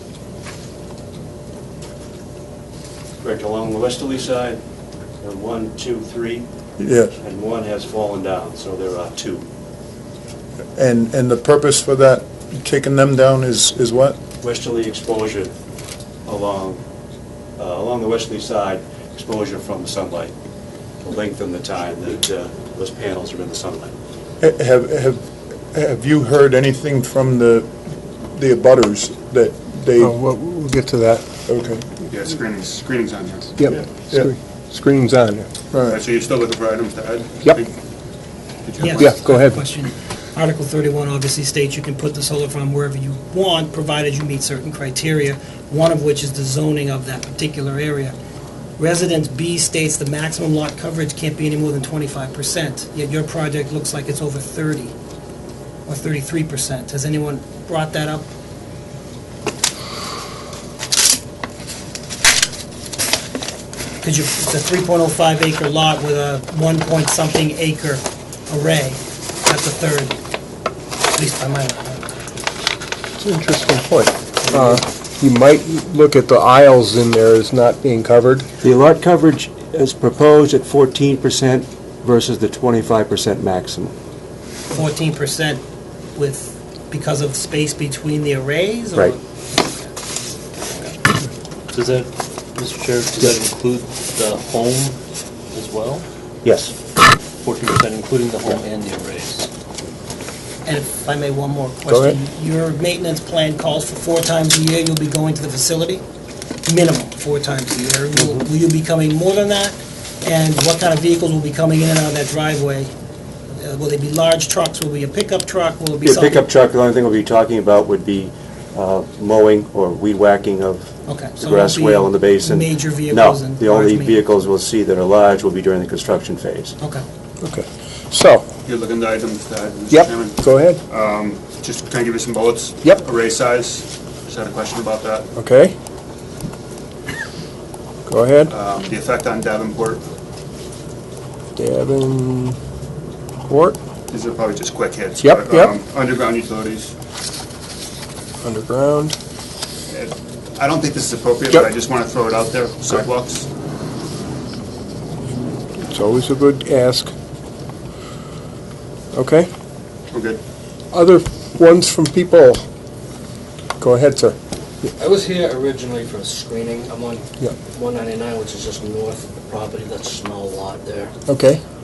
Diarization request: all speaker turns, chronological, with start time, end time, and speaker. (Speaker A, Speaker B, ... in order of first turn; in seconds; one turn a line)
Speaker A: 3.2-4.6
Speaker A: 5.2-6.5
Speaker B: 6.8-7.1
Speaker A: 7.2-9.5
Speaker B: 10.8-14.2
Speaker A: 14.4-15.5
Speaker A: 16.2-16.8
Speaker A: 17.6-20.3
Speaker A: 21.0-23.9
Speaker B: 24.4-27.7
Speaker B: 28.3-30.2
Speaker C: 30.0-31.2
Speaker B: 31.5-31.9
Speaker D: 32.1-33.5
Speaker C: 33.6-35.5
Speaker B: 35.7-36.0
Speaker D: 35.9-37.7
Speaker D: 38.6-39.2
Speaker E: 38.8-48.1
Speaker C: 39.0-39.6
Speaker E: 48.8-54.9
Speaker E: 55.9-58.3
Speaker E: 64.0-70.1
Speaker E: 71.1-72.0
Speaker C: 73.2-78.5
Speaker A: 78.6-84.0
Speaker E: 84.7-85.6
Speaker E: 86.2-89.2
Speaker F: 91.7-95.0
Speaker F: 95.5-96.0
Speaker A: 96.4-96.7
Speaker F: 97.4-99.5
Speaker E: 100.7-106.0
Speaker C: 101.9-102.2
Speaker E: 106.7-112.9
Speaker A: 108.2-108.5
Speaker E: 113.6-116.5
Speaker A: 116.0-126.8
Speaker E: 121.1-124.2
Speaker C: 127.4-128.5
Speaker D: 128.7-135.3
Speaker C: 129.9-130.8
Speaker C: 135.4-135.8
Speaker C: 138.1-138.5
Speaker D: 138.5-140.0
Speaker C: 141.6-142.6
Speaker C: 143.5-143.8
Speaker D: 144.1-146.9
Speaker C: 145.2-145.7
Speaker C: 148.4-149.2
Speaker D: 149.9-153.5
Speaker C: 155.9-157.1
Speaker C: 159.1-159.5
Speaker D: 160.1-160.4
Speaker C: 160.9-162.6
Speaker C: 163.8-164.4
Speaker G: 165.0-171.1
Speaker C: 171.3-171.6